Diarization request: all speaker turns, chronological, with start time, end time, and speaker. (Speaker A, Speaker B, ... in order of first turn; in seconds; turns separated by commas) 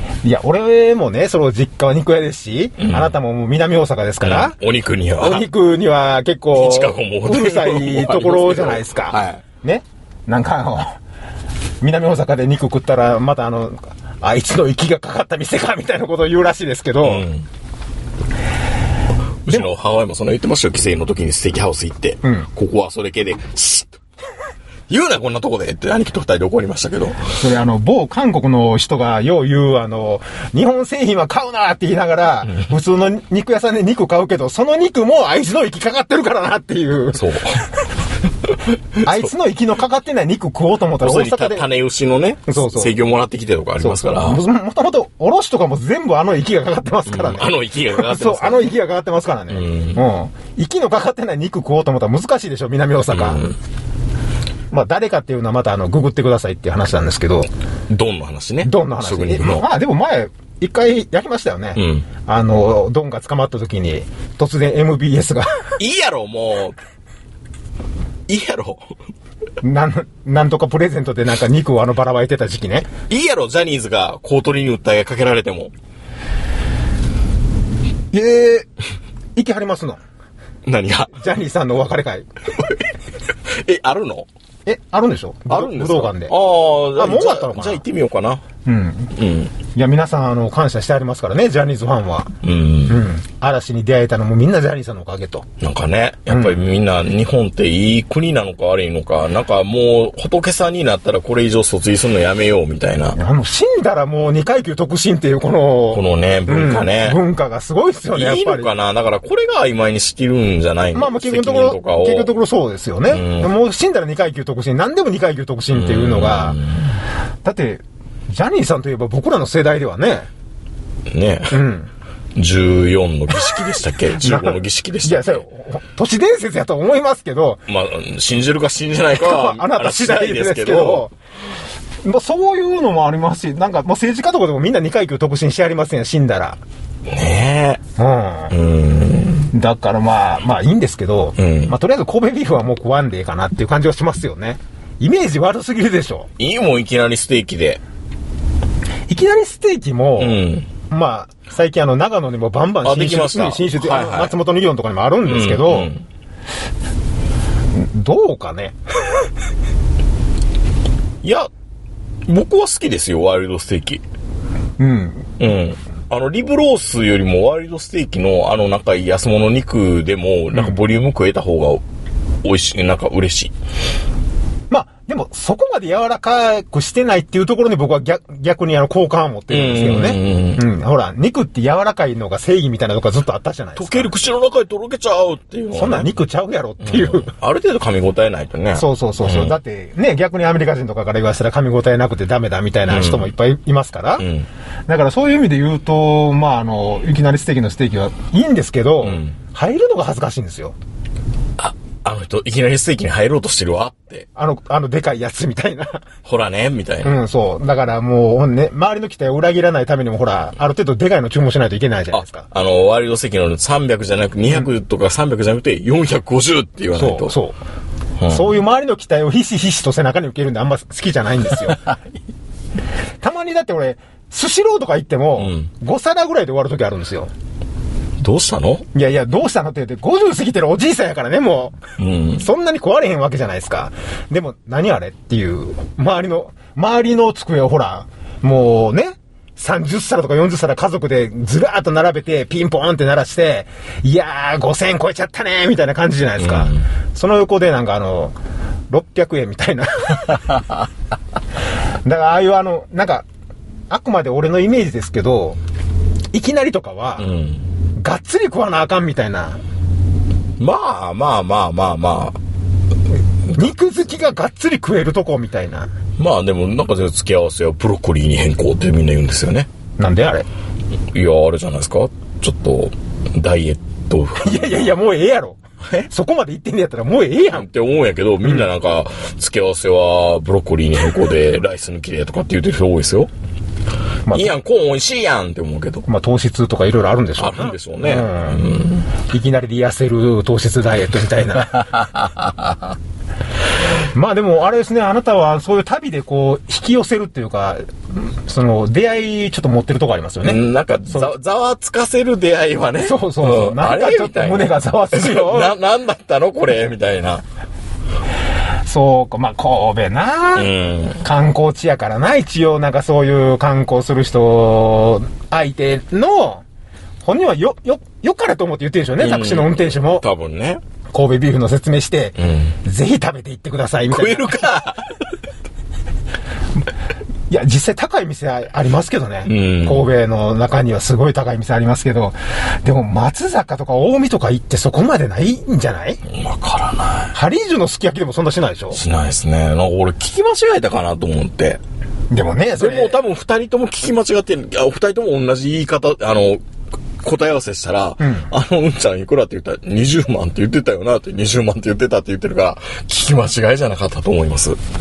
Speaker A: 0.2-4.5, Speaker B: 2.8-3.1, Speaker B: 4.2-5.5, Speaker A: 5.2-11.0, Speaker B: 6.5-9.4, Speaker A: 11.8-17.2, Speaker B: 17.0-17.5, Speaker B: 19.4-24.0, Speaker B: 24.9-27.4, Speaker A: 27.4-37.3, Speaker B: 37.1-37.7, Speaker B: 39.0-39.3, Speaker A: 39.0-41.6, Speaker B: 41.0-44.4, Speaker A: 42.5-43.0, Speaker A: 43.8-53.4, Speaker B: 47.1-48.7, Speaker B: 49.5-50.0, Speaker B: 53.1-53.5, Speaker A: 54.7-57.5, Speaker B: 57.9-59.6, Speaker A: 58.6-65.7, Speaker B: 61.8-62.0, Speaker B: 65.8-66.8, Speaker B: 68.3-69.0, Speaker A: 69.6-72.9, Speaker B: 73.1-75.7, Speaker A: 78.1-78.7, Speaker A: 79.3-80.0, Speaker B: 80.6-81.2, Speaker A: 81.1-82.3, Speaker B: 82.5-82.8, Speaker B: 83.5-84.3, Speaker A: 84.7-86.3, Speaker B: 85.5-88.4, Speaker A: 87.0-87.8, Speaker A: 88.6-89.1, Speaker B: 89.1-89.5, Speaker A: 89.7-92.3, Speaker B: 92.4-93.0, Speaker A: 92.9-95.5, Speaker B: 95.6-103.2, Speaker A: 96.3-96.6, Speaker A: 103.2-108.7, Speaker B: 105.9-107.2, Speaker B: 108.1-112.3, Speaker A: 110.9-116.6, Speaker B: 113.1-113.5, Speaker B: 115.7-117.0, Speaker A: 117.4-120.3, Speaker B: 121.1-121.6, Speaker A: 121.5-121.9, Speaker B: 122.3-125.4, Speaker A: 124.2-127.6, Speaker B: 127.7-131.1, Speaker A: 129.1-131.1, Speaker A: 132.0-136.6, Speaker B: 137.1-137.8, Speaker A: 138.0-138.5, Speaker B: 138.5-139.5, Speaker A: 139.5-146.3, Speaker B: 141.4-141.7, Speaker B: 146.4-147.8, Speaker A: 149.1-155.9, Speaker B: 150.2-150.7, Speaker B: 152.8-154.4, Speaker B: 155.2-156.0, Speaker A: 157.7-158.8, Speaker B: 161.2-161.5, Speaker B: 162.3-164.0, Speaker A: 164.8-165.4, Speaker B: 165.4-171.8, Speaker B: 172.4-173.5, Speaker A: 174.7-184.1, Speaker B: 179.5-180.6, Speaker B: 183.8-186.1, Speaker A: 185.7-187.3, Speaker B: 186.8-189.6, Speaker A: 188.7-194.3, Speaker B: 192.9-193.3, Speaker B: 194.2-194.5, Speaker A: 194.9-200.7, Speaker B: 199.0-199.3, Speaker B: 201.6-204.3, Speaker A: 204.3-206.0, Speaker B: 206.2-207.1, Speaker A: 207.0-212.5, Speaker B: 212.1-217.3, Speaker A: 216.9-217.6, Speaker B: 218.2-218.6, Speaker A: 218.3-221.8, Speaker B: 221.6-221.9, Speaker A: 223.2-227.3, Speaker B: 225.4-225.7, Speaker B: 228.2-228.8, Speaker A: 228.9-231.8, Speaker B: 232.0-232.4, Speaker A: 232.3-248.3, Speaker B: 246.4-246.8, Speaker A: 248.9-250.4, Speaker A: 252.0-253.2, Speaker A: 253.9-255.6, Speaker A: 256.3-257.3, Speaker B: 257.2-257.6, Speaker A: 258.0-259.6, Speaker B: 260.6-262.4, Speaker A: 263.5-265.9, Speaker B: 266.2-269.7, Speaker A: 270.0-270.4, Speaker B: 271.1-274.9, Speaker A: 274.4-277.6, Speaker B: 277.5-283.3, Speaker A: 284.3-284.5, Speaker B: 284.3-286.0, Speaker A: 286.1-288.7, Speaker B: 287.4-289.1, Speaker A: 289.3-291.9, Speaker B: 291.7-292.8, Speaker A: 294.0-300.6, Speaker B: 300.4-307.4, Speaker A: 303.0-305.7, Speaker A: 308.9-316.6, Speaker B: 310.5-311.2, Speaker A: 317.2-320.2, Speaker B: 319.2-320.8, Speaker A: 321.1-324.8, Speaker B: 322.4-322.7, Speaker B: 324.1-325.2, Speaker A: 327.5-336.2, Speaker B: 329.4-330.1, Speaker B: 336.3-337.3, Speaker A: 337.3-339.0, Speaker B: 338.9-341.8, Speaker A: 342.3-343.2, Speaker B: 342.8-346.6, Speaker B: 347.2-354.8, Speaker A: 348.2-348.5